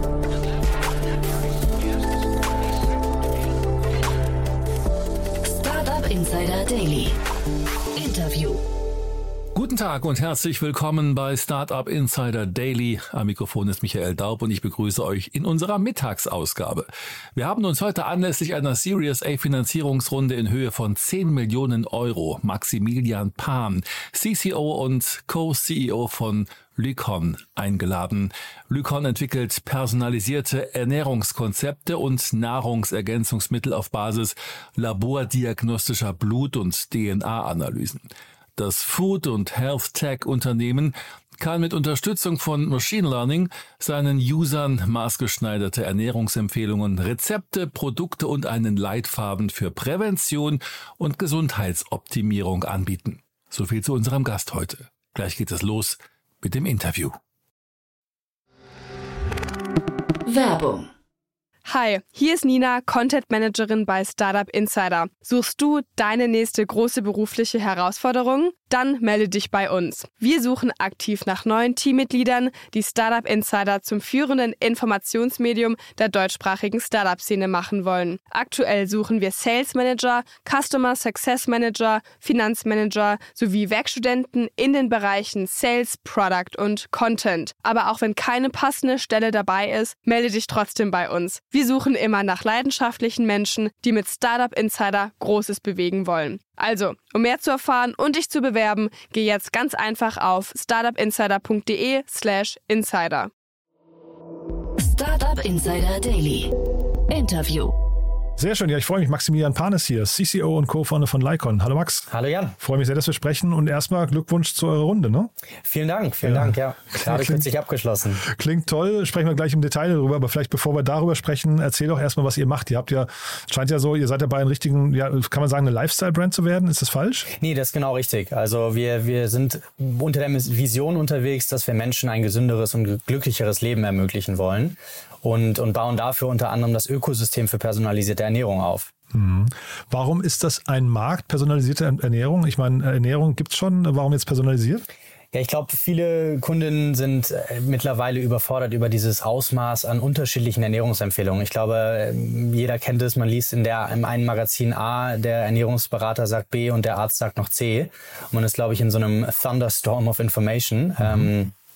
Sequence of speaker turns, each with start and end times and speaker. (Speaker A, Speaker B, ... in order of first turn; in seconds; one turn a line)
Speaker A: 5.4-7.2
Speaker A: 7.9-8.6
Speaker B: 9.5-38.0
Speaker B: 38.5-57.1
Speaker A: 60.2-60.9
Speaker C: 61.6-103.3
Speaker A: 104.8-106.5
Speaker A: 107.1-107.7
Speaker D: 108.4-112.1
Speaker E: 112.1-112.5
Speaker D: 112.6-115.3
Speaker E: 115.6-118.2
Speaker D: 116.2-117.5
Speaker D: 118.2-127.3
Speaker E: 127.3-138.9
Speaker D: 139.1-144.8
Speaker E: 145.3-161.5
Speaker D: 161.0-161.3